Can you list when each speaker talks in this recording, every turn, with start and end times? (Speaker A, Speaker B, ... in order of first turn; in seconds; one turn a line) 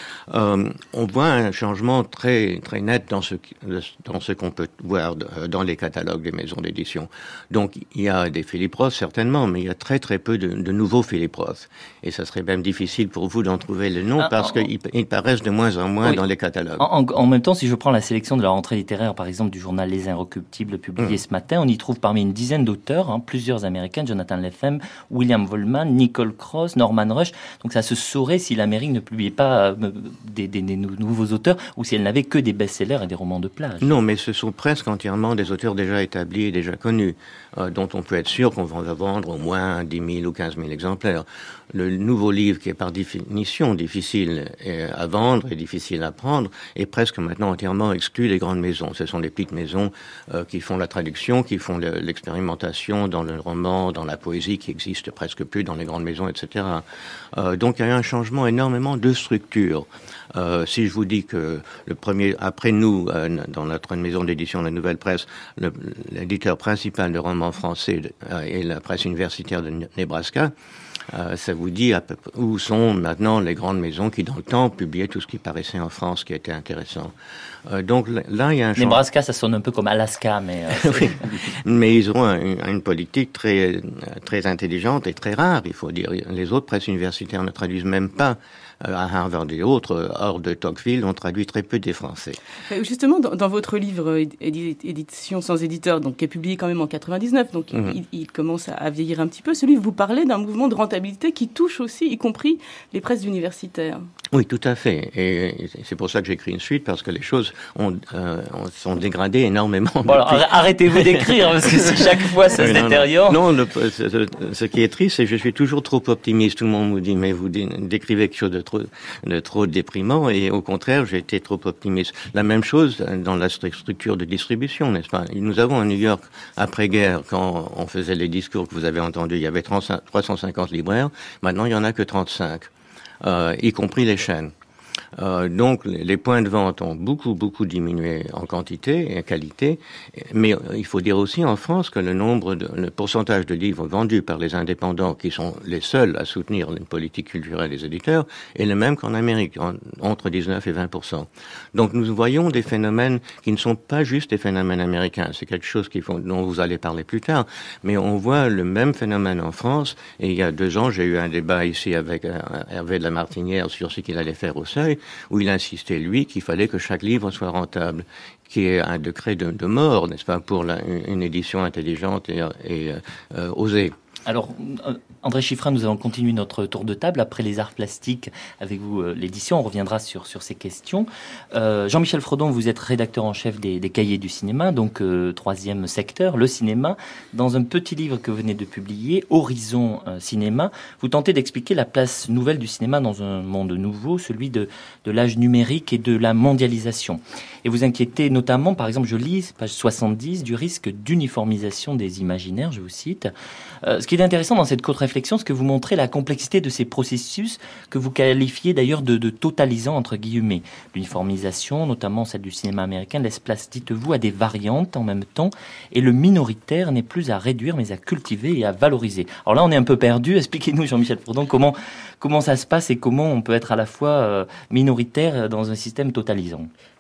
Speaker A: 0.3-16.9
Speaker B: 14.2-14.6
Speaker B: 16.8-33.9
Speaker A: 33.8-70.5
Speaker A: 71.1-77.1
Speaker A: 77.7-79.0
Speaker B: 78.8-81.2
Speaker A: 80.7-92.4
Speaker C: 92.7-104.1
Speaker A: 97.7-98.0
Speaker A: 104.3-132.7
Speaker B: 110.1-113.4
Speaker A: 133.2-134.5
Speaker A: 135.2-174.0
Speaker B: 174.3-203.3
Speaker B: 203.8-226.7